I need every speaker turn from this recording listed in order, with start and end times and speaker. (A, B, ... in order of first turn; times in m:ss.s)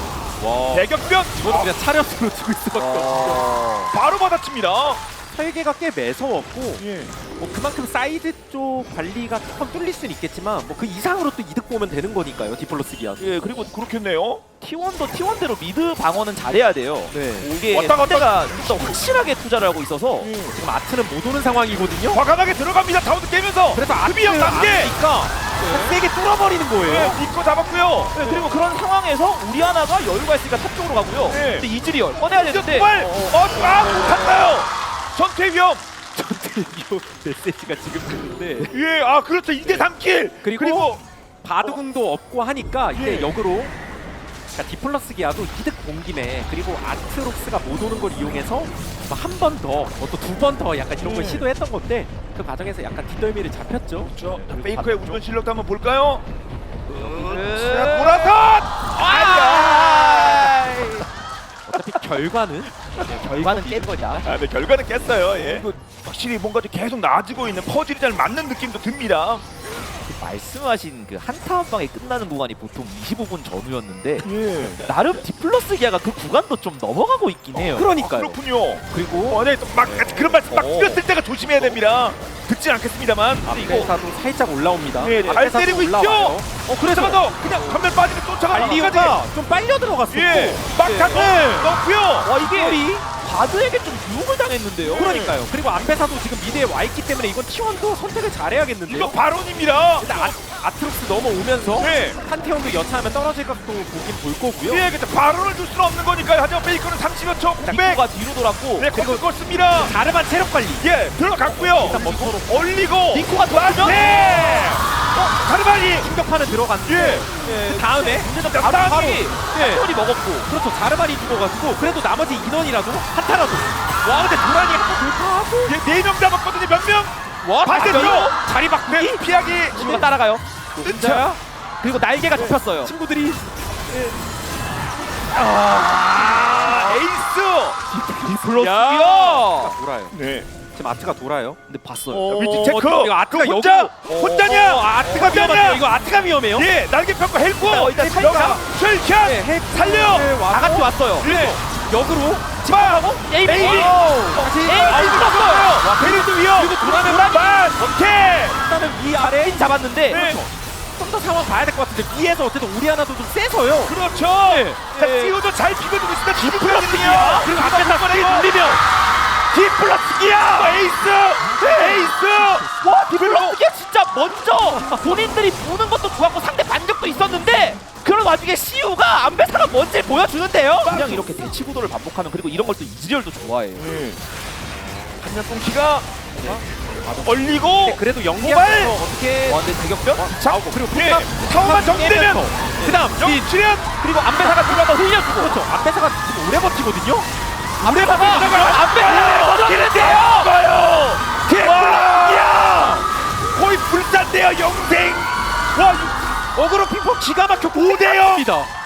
0:00.4-0:03.5 A
0:00.7-0:01.7 B
0:02.8-0:03.8 C
0:03.9-0:05.0 B
0:05.3-0:13.3 A
0:06.8-0:07.1 B
0:13.2-0:13.7 C
0:13.6-0:14.4 B
0:14.6-0:20.3 C
0:17.1-0:17.5 A
0:17.7-0:19.0 B
0:20.2-0:20.6 B
0:20.5-0:22.2 A
0:22.1-0:24.9 B
0:23.7-0:27.2 A
0:26.8-0:28.2 B
0:28.1-0:33.0 C
0:31.3-0:31.7 B
0:32.2-0:35.8 B
0:33.0-0:34.4 A
0:36.1-0:38.7 A
0:38.6-0:41.0 B
0:39.6-0:39.9 A
0:40.4-0:43.7 A
0:42.9-0:43.4 B
0:44.5-0:54.1 A
0:51.0-0:51.5 B
0:54.0-0:56.2 B
0:54.2-0:55.2 C
0:56.9-1:00.5 B
0:56.9-1:01.1 C
1:01.7-1:04.3 A
1:03.1-1:04.2 C
1:04.2-1:09.4 B
1:10.1-1:17.9 C
1:14.2-1:14.8 B
1:17.7-1:20.0 A
1:17.8-1:23.9 B
1:19.9-1:21.0 C
1:23.4-1:27.3 A
1:25.0-1:29.2 B
1:25.0-1:25.4 C
1:28.5-1:31.7 A
1:30.1-1:32.3 B
1:30.9-1:31.3 C
1:32.2-1:35.1 C
1:32.3-1:33.0 A
1:34.8-1:39.2 A
1:34.9-1:35.4 B
1:38.8-1:40.3 B
1:40.0-1:44.9 A
1:41.7-1:42.2 B
1:44.6-1:48.0 B
1:47.6-1:49.0 C
1:48.8-1:49.9 B
1:48.9-1:50.8 A
1:50.8-1:56.1 B
1:51.5-1:52.6 A
1:51.7-1:52.3 C
1:53.1-1:54.5 C
1:53.9-1:54.8 A
1:55.9-1:58.3 A
1:56.8-1:57.3 B
1:57.4-2:00.5 C
1:58.5-1:59.3 B
1:59.2-1:59.8 A
2:00.4-2:05.8 A
2:05.6-2:10.1 B
2:07.4-2:10.1 A
2:07.6-2:08.3 C
2:09.7-2:11.3 C
2:10.8-2:11.4 A
2:11.8-2:12.9 C
2:12.3-2:13.4 A
2:15.4-2:17.0 A
2:16.2-2:17.8 B
2:17.9-2:20.2 A
2:18.3-2:19.8 C
2:20.1-2:20.5 B
2:20.7-2:21.6 A
2:21.7-2:22.3 C
2:22.1-2:26.7 A
2:22.3-2:25.8 B
2:25.0-2:25.4 C
2:26.5-2:30.4 B
2:27.6-2:28.6 C
2:27.7-2:32.6 A
2:30.5-2:31.3 C
2:31.2-2:31.6 B
2:32.6-2:35.8 C
2:32.6-2:38.6 B
2:33.4-2:37.8 A
2:36.8-2:37.5 C
2:38.4-2:45.0 A
2:39.2-2:40.2 C
2:40.1-2:40.4 B
2:43.8-2:48.5 B
2:44.8-2:45.4 C
2:46.4-2:47.5 C
2:47.0-2:48.8 A
2:49.5-2:53.6 B
2:49.6-2:50.8 A
2:51.6-2:52.6 A
2:51.6-2:52.1 C
2:52.6-3:03.9 C
2:54.6-2:55.3 A
3:00.8-3:01.3 B
3:03.8-3:04.2 B
3:04.7-3:05.2 A
3:05.2-3:06.1 B
3:06.4-3:06.6 A
3:06.4-3:07.4 C
3:07.2-3:09.0 B
3:07.8-3:13.5 A
3:09.4-3:10.8 C
3:10.9-3:13.9 B
3:14.0-3:15.6 C
3:14.3-3:17.3 A
3:17.8-3:20.5 C
3:17.8-3:20.5 A
3:17.9-3:26.2 B
3:21.4-3:23.1 A
3:26.5-3:28.7 A
3:27.7-3:28.5 B